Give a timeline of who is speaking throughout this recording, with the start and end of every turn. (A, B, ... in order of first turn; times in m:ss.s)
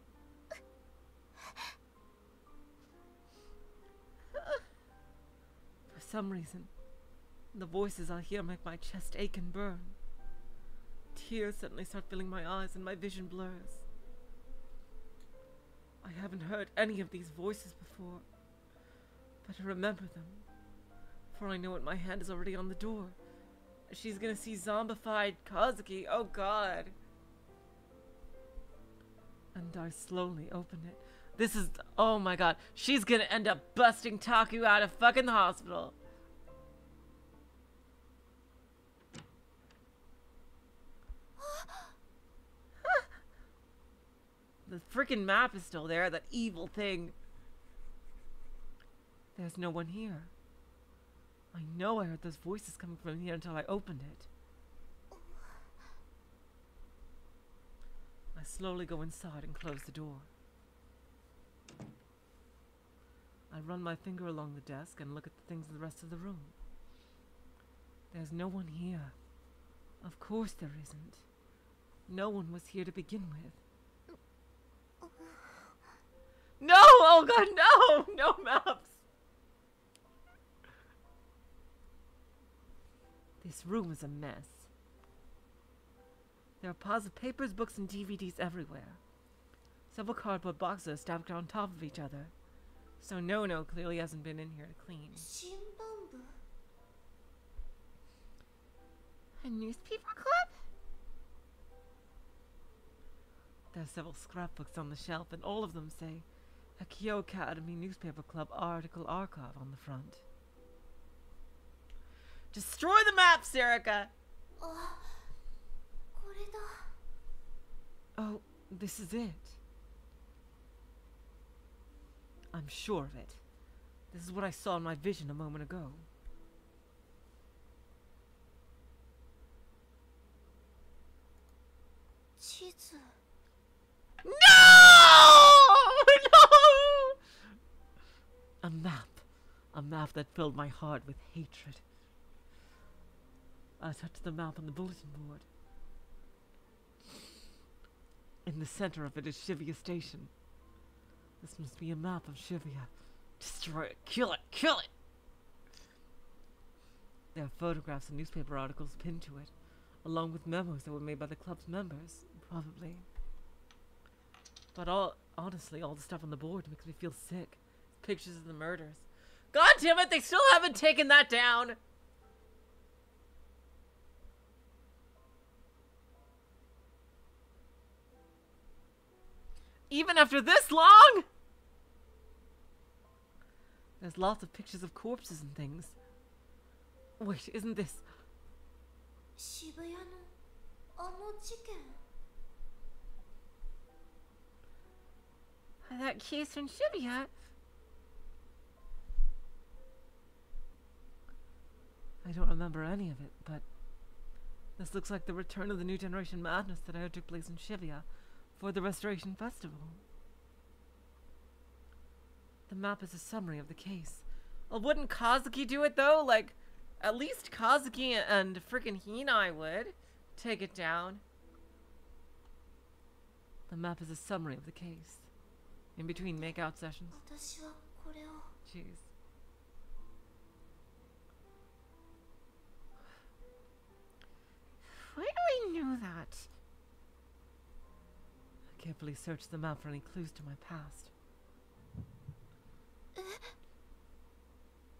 0:05.9-0:06.7 A
0:07.5-0:10.0 A
0:11.1-0:13.8 A
0:16.0-0:18.2 A
0:19.4-0:20.4 A
0:21.3-0:23.2 A
0:23.9-0:26.9 A
0:29.5-0:35.9 A
0:41.4-0:41.9 B
0:42.8-0:43.1 A
0:44.7-0:47.1 A
0:49.4-0:50.3 A
0:51.5-0:54.3 A
0:58.3-1:00.3 A
1:03.5-1:06.5 A
1:08.1-1:09.1 A
1:10.0-1:11.2 A
1:12.1-1:13.6 A
1:15.0-1:15.6 B
1:16.6-1:19.0 A
1:23.4-1:24.7 A
1:26.6-1:29.0 A
1:29.9-1:32.3 A
1:33.0-1:35.3 A
1:35.2-1:36.3 B
1:39.4-1:40.6 A
1:43.7-1:46.2 A
1:46.8-1:50.2 A
1:52.5-1:54.1 A
1:54.6-1:55.2 B
1:56.1-1:56.9 B
1:58.2-1:59.6 A
2:02.5-2:03.4 A
2:04.1-2:06.0 A
2:12.4-2:13.1 B
2:14.2-2:17.2 A
2:18.6-2:21.8 A
2:23.8-2:25.4 A
2:28.4-2:30.3 A
2:31.4-2:34.9 A
2:37.3-2:39.5 A
2:40.0-2:43.0 A
2:44.7-2:51.8 A
2:59.9-3:01.2 A
3:04.0-3:06.0 A
3:07.2-3:08.0 A
3:09.4-3:10.3 B
3:11.0-3:12.0 B
3:15.8-3:17.3 A
3:22.2-3:23.6 A
3:24.8-3:30.0 A
3:32.7-3:41.2 A
3:43.7-3:45.3 A
3:46.0-3:47.2 A
3:46.2-3:46.5 B
3:47.1-3:48.5 B
3:48.6-3:49.1 A
3:54.8-3:56.5 A
3:58.7-4:01.1 A
4:03.2-4:03.5 B